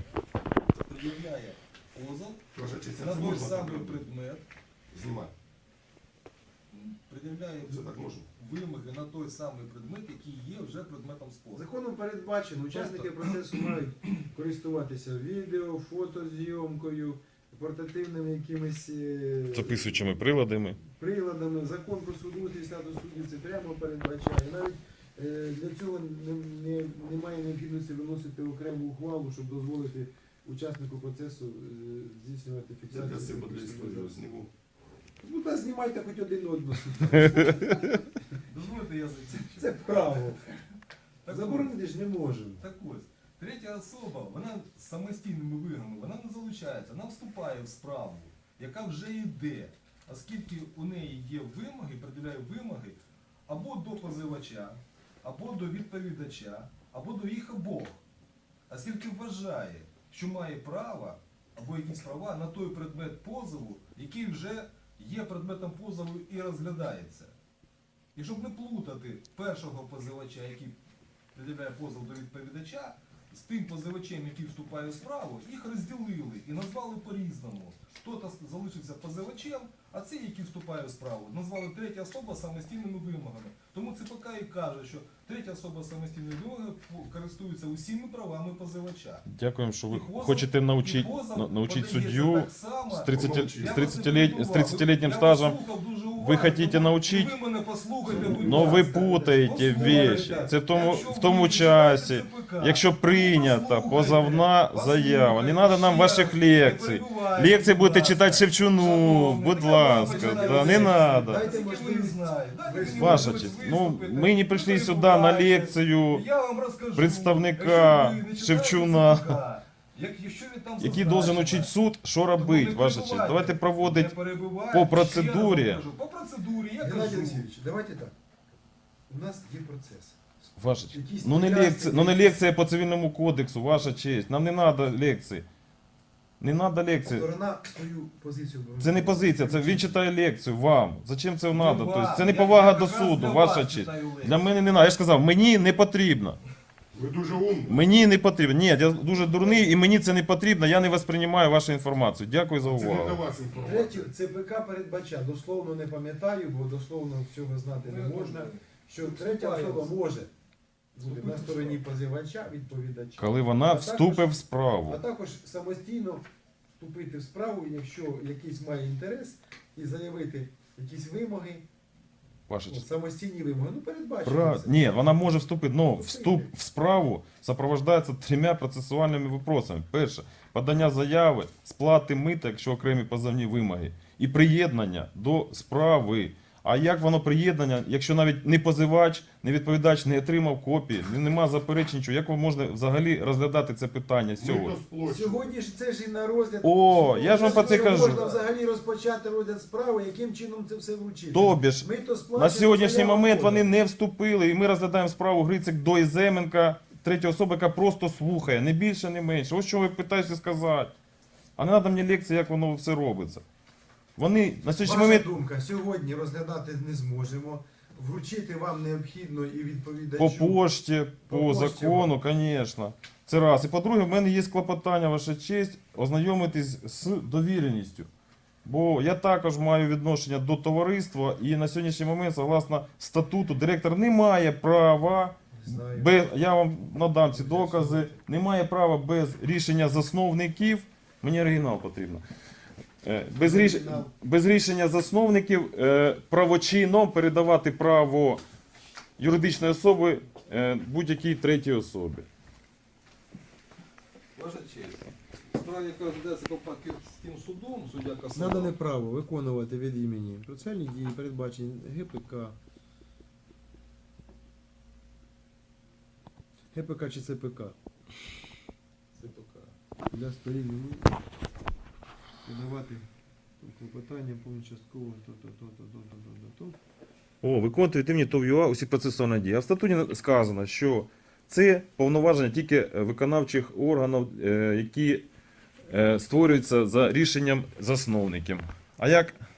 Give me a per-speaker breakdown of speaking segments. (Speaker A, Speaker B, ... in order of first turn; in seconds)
Speaker A: 0.8-2.4, 3.0-4.4, 6.7-11.7, 12.7-13.6, 38.5-39.9, 41.2-41.7, 42.6-58.0, 58.7-67.3, 68.1-70.8, 71.3-89.2, 89.9-121.7, 122.3-127.5, 141.5-144.7, 149.4-149.7, 157.7-159.9, 161.0-161.8, 197.2-198.5, 254.3-258.8, 269.1-269.7
Speaker B: 2.5-4.0, 4.9-5.3, 7.7-8.3, 32.9-34.5, 93.1-94.0, 98.1-98.4, 146.9-147.9, 152.6-154.1, 194.4-195.5
Speaker C: 11.5-20.3, 20.8-34.2, 35.2-38.1, 39.5-40.4, 41.2-42.6, 98.2-100.3, 109.9-113.5, 126.8-128.1, 129.1-130.2, 130.9-132.4, 137.0-140.0, 153.6-160.3, 160.9-164.3, 164.8-166.2, 166.8-171.6, 172.7-176.5, 195.0-203.8, 214.7-220.6, 221.3-222.1, 235.5-236.3, 237.3-238.2, 243.4-244.1, 258.3-262.6, 266.7-267.8, 270.1-271.2, 272.4-273.1, 273.6-276.8
Speaker D: 19.5-20.8, 37.3-37.5, 89.3-95.6, 96.2-97.3, 98.2-111.5, 112.9-116.2, 116.9-119.4, 120.8-124.2, 124.7-125.8, 130.6-135.4, 136.4-137.3, 138.8-146.4, 147.7-153.2, 163.2-165.0, 172.5-172.8, 174.2-194.8, 196.6-198.2, 201.3-210.9, 211.6-213.4, 214.2-215.3, 220.2-228.1, 228.6-242.2, 243.0-248.4, 249.2-252.3, 277.4-285.2, 285.9-289.4